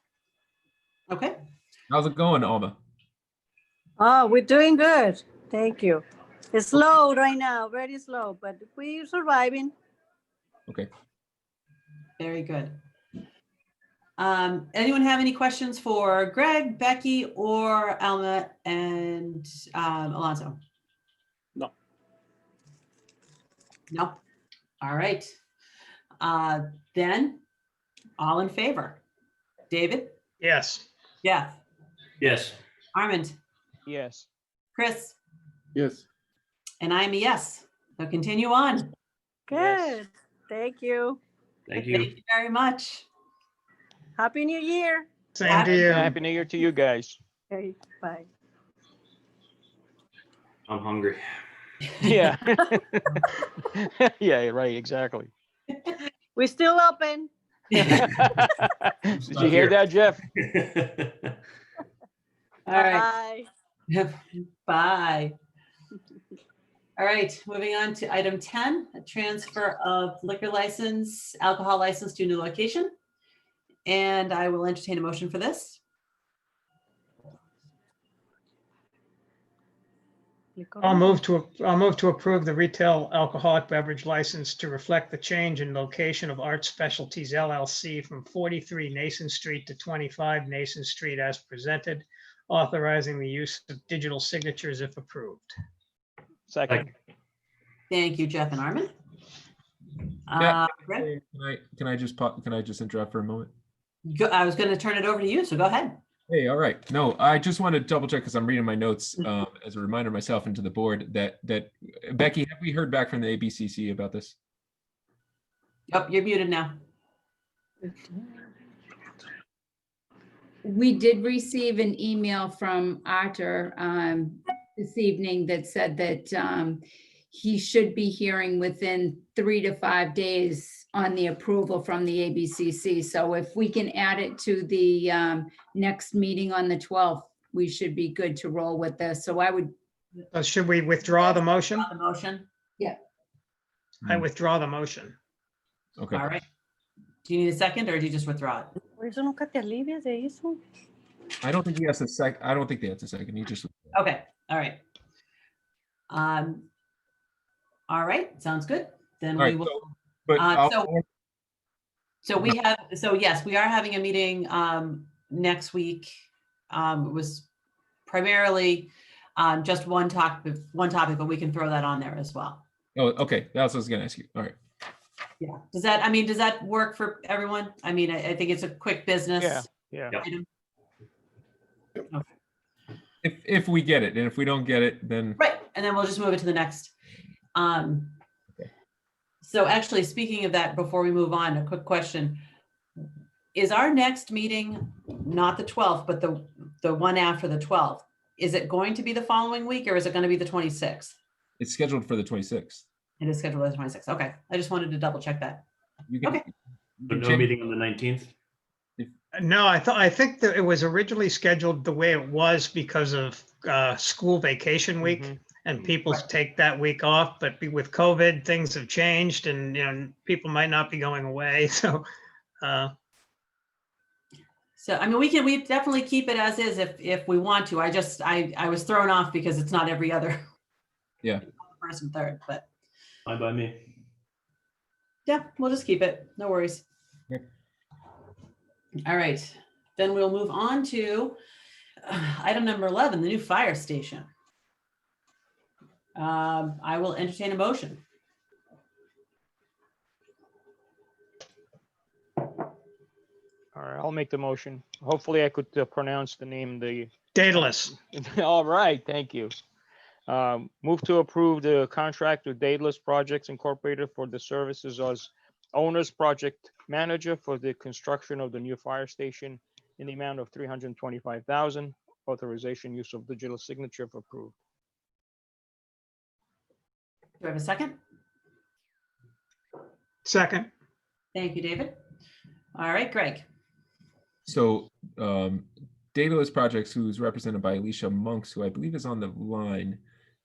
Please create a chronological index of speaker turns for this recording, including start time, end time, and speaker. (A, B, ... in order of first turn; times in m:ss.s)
0:01.1-0:01.4 A
0:01.9-0:02.8 B
0:04.0-0:09.7 C
0:12.2-0:12.8 A
0:14.2-0:20.6 A
0:23.9-0:24.2 A
0:24.8-0:25.3 A
0:26.2-0:27.4 A
0:28.2-0:29.0 A
0:29.7-0:30.2 A
0:30.4-0:30.9 D
0:31.2-0:31.5 A
0:32.2-0:32.6 E
0:32.9-0:33.4 A
0:33.8-0:34.3 F
0:34.7-0:35.2 A
0:36.8-0:38.9 A
0:39.5-0:41.2 C
0:39.5-0:40.0 F
0:41.7-0:42.1 E
0:41.7-0:43.0 A
0:44.2-0:45.1 C
0:45.3-0:46.2 D
0:45.4-0:46.0 A
0:45.5-0:47.2 F
0:47.5-0:48.3 C
0:50.7-0:51.4 E
0:52.0-0:55.3 F
0:56.4-0:57.3 C
0:57.8-1:00.2 F
0:59.3-0:59.8 E
1:00.4-1:01.1 E
1:02.7-1:03.1 A
1:02.7-1:03.5 C
1:03.9-1:05.3 A
1:07.0-1:12.9 A
1:13.9-1:15.8 A
1:20.6-1:21.1 C
1:20.8-1:35.5 D
1:36.5-1:36.9 F
1:37.9-1:38.9 A
1:40.3-1:41.1 A
1:40.4-1:43.5 B
1:44.1-1:46.0 A
1:46.3-1:54.3 B
1:55.9-1:56.7 A
2:00.6-2:19.7 G
2:20.3-2:21.9 D
2:21.1-2:22.5 A
2:24.0-2:25.2 D
2:26.0-2:26.2 B
2:26.1-2:26.4 A
2:27.2-2:28.8 A
2:29.0-2:30.6 C
2:31.4-2:33.9 B
2:33.9-2:34.8 A
2:36.1-2:36.7 A
2:37.9-2:40.9 A
2:39.4-2:41.0 B
2:42.2-2:46.1 A
2:46.7-2:47.5 A
2:48.1-2:52.6 A
2:52.9-2:54.6 B
2:55.4-2:59.7 A
2:59.4-3:00.2 F
3:00.2-3:00.4 A
3:03.2-3:05.4 B
3:05.4-3:06.9 A
3:07.5-3:08.2 A
3:09.4-3:12.4 A
3:13.5-3:21.2 A
3:21.6-3:22.8 B
3:23.2-3:25.7 A
3:26.1-3:27.5 B
3:27.1-3:28.3 E
3:29.3-3:42.0 D
3:35.0-3:35.4 F
3:42.6-3:42.9 D
3:44.8-3:50.4 A
3:51.5-3:52.7 A
3:53.2-3:53.8 E
3:55.3-3:56.8 A
3:59.0-4:01.4 A
4:02.0-4:04.3 A
4:06.2-4:08.0 A
4:13.8-4:19.5 F
4:17.4-4:17.9 D
4:20.3-4:34.5 F
4:37.4-4:38.0 A
4:40.2-4:40.7 D
4:41.4-4:42.0 A
4:42.8-4:43.4 A
4:44.5-4:50.0 B